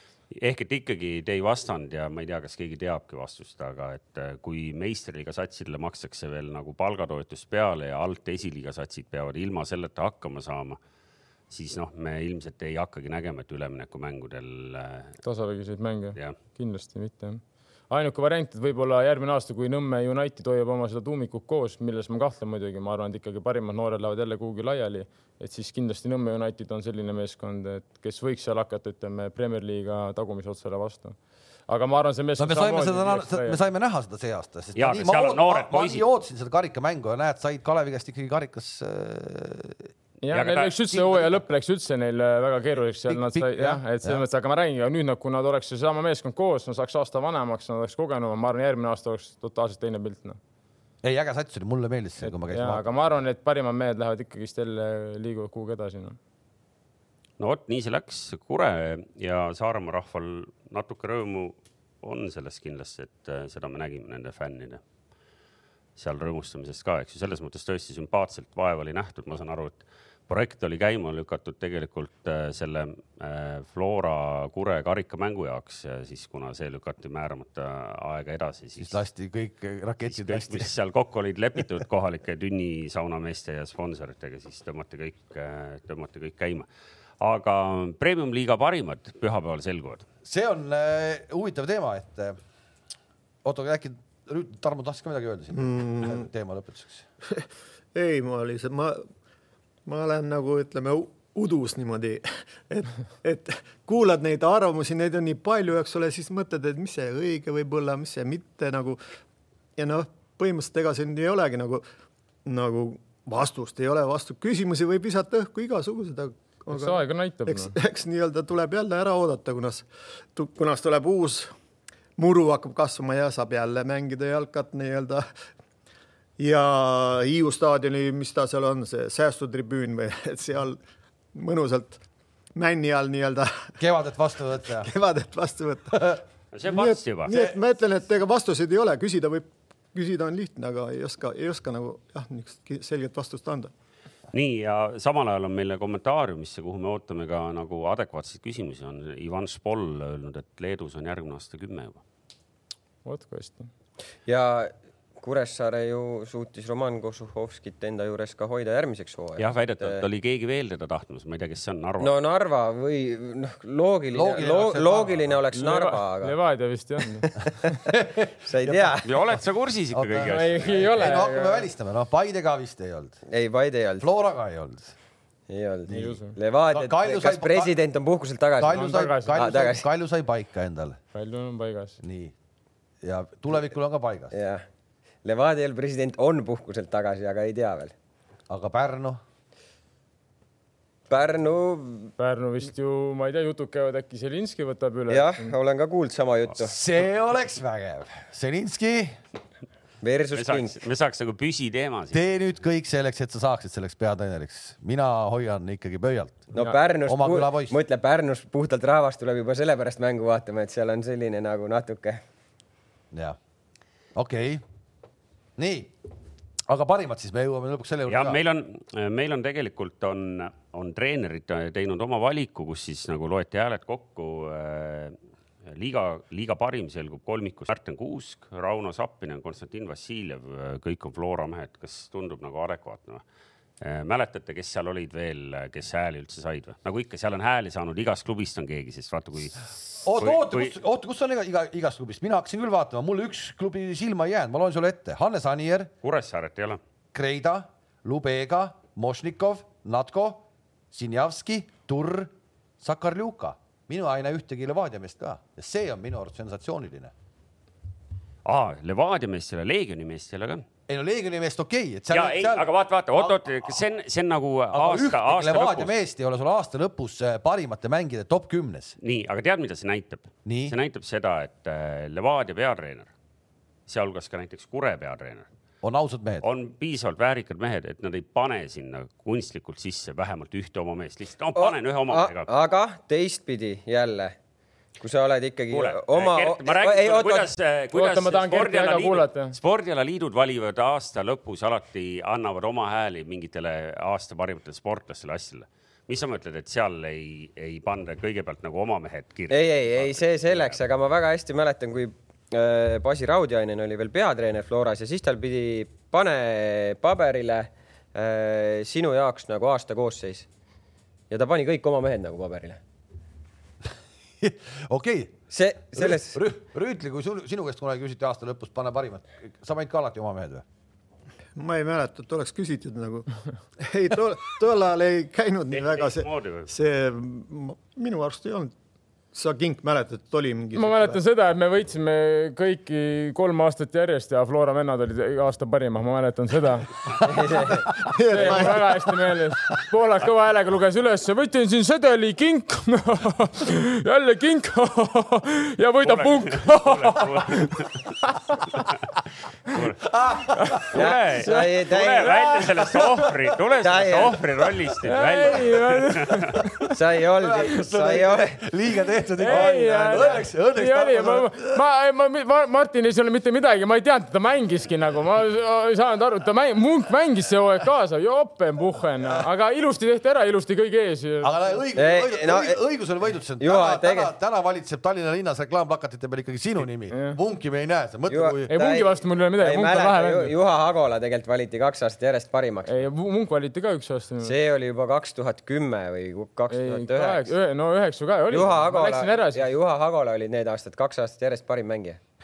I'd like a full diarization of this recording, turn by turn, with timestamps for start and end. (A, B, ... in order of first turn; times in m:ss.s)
0:00.3-0:10.8 A
0:11.5-0:15.2 A
0:15.2-0:31.2 B
0:31.7-0:33.6 B
0:32.4-0:39.9 C
0:34.8-0:36.0 A
0:40.2-0:50.4 B
0:40.3-0:40.8 A
0:40.9-0:41.4 C
0:43.0-0:44.2 C
0:51.0-0:52.9 C
0:52.2-0:56.2 B
0:57.4-1:04.8 A
1:06.0-1:19.0 A
1:18.8-1:20.7 C
1:20.0-1:26.6 A
1:27.2-1:30.0 A
1:30.2-1:32.3 C
1:33.4-1:37.0 C
1:35.5-1:36.3 D
1:37.3-1:39.0 D
1:39.8-1:49.0 D
1:49.8-1:51.8 D
1:52.4-2:01.5 D
1:56.7-1:57.7 B
2:02.2-2:05.2 D
2:06.4-2:10.8 D
2:11.3-2:12.0 D
2:12.5-2:13.7 D
2:13.8-2:14.9 C
2:14.7-2:23.7 D
2:16.5-2:17.3 A
2:17.3-2:17.6 C
2:24.3-2:32.0 A
2:33.0-2:33.7 B
2:34.2-2:40.0 E
2:39.4-2:42.1 A
2:42.0-2:46.4 E
2:44.1-2:45.4 C
2:45.5-2:47.7 B
2:47.9-2:53.2 C
2:48.4-2:49.1 E
2:49.0-2:50.8 A
2:50.2-2:51.7 B
2:53.3-2:54.1 E
2:54.0-2:54.9 C
2:55.5-2:59.8 E
2:55.9-2:56.1 C
2:55.9-2:56.3 B
2:56.7-2:57.8 C
2:58.6-3:01.0 C
2:58.7-2:59.6 B
3:01.1-3:02.0 B
3:02.0-3:02.3 C
3:03.0-3:04.3 C
3:04.3-3:04.6 E
3:05.2-3:07.9 E
3:08.5-3:09.2 C
3:11.1-3:12.1 E
3:12.2-3:15.5 B
3:15.1-3:16.8 E
3:16.6-3:19.2 C
3:20.0-3:20.8 E
3:20.3-3:22.2 A
3:22.1-3:26.5 C
3:26.5-3:32.2 E
3:27.0-3:27.7 C
3:33.1-3:33.4 C
3:34.1-3:34.6 C
3:35.6-3:35.9 C
3:36.7-3:38.4 C
3:38.1-3:45.1 A
3:45.7-3:53.2 A
3:53.8-4:00.7 A
4:00.0-4:05.9 C
4:06.0-4:06.8 A
4:07.1-4:17.1 C
4:18.4-4:20.6 A
4:20.9-4:23.8 C
4:22.1-4:25.9 A
4:24.7-4:29.0 C
4:29.0-4:33.1 A
4:30.4-4:30.7 C
4:33.9-4:35.4 A
4:35.8-4:36.4 C
4:36.4-4:42.5 A
4:41.6-4:44.3 E
4:45.0-4:47.5 E
4:45.7-5:00.8 A
4:47.9-4:49.6 B
4:59.5-5:10.5 E
5:11.3-5:12.8 E
5:14.4-5:15.3 C
5:15.5-5:16.4 E
5:15.9-5:20.6 C
5:21.6-5:28.7 D
5:25.7-5:26.7 A
5:29.3-5:31.2 D
5:30.7-5:37.6 B
5:37.2-5:37.9 E
5:37.9-5:39.1 D
5:38.3-5:48.8 B
5:46.0-5:47.9 A
5:49.7-5:50.0 A
5:50.0-5:51.0 C
5:50.6-5:50.9 B
5:50.9-5:56.5 A
5:50.9-5:52.6 E
5:52.2-5:53.6 C
5:53.8-5:54.4 E
5:55.0-5:56.9 B
5:56.5-6:01.8 C
5:56.9-5:58.6 E
5:59.4-6:11.5 B
5:59.5-6:00.3 E
6:11.4-6:18.7 C
6:12.0-6:12.8 E
6:13.6-6:14.3 E
6:17.1-6:17.4 B
6:18.3-6:23.0 E
6:18.7-6:20.5 B
6:22.9-6:24.5 B
6:24.4-6:27.5 E
6:26.7-6:29.7 B
6:28.5-6:32.2 E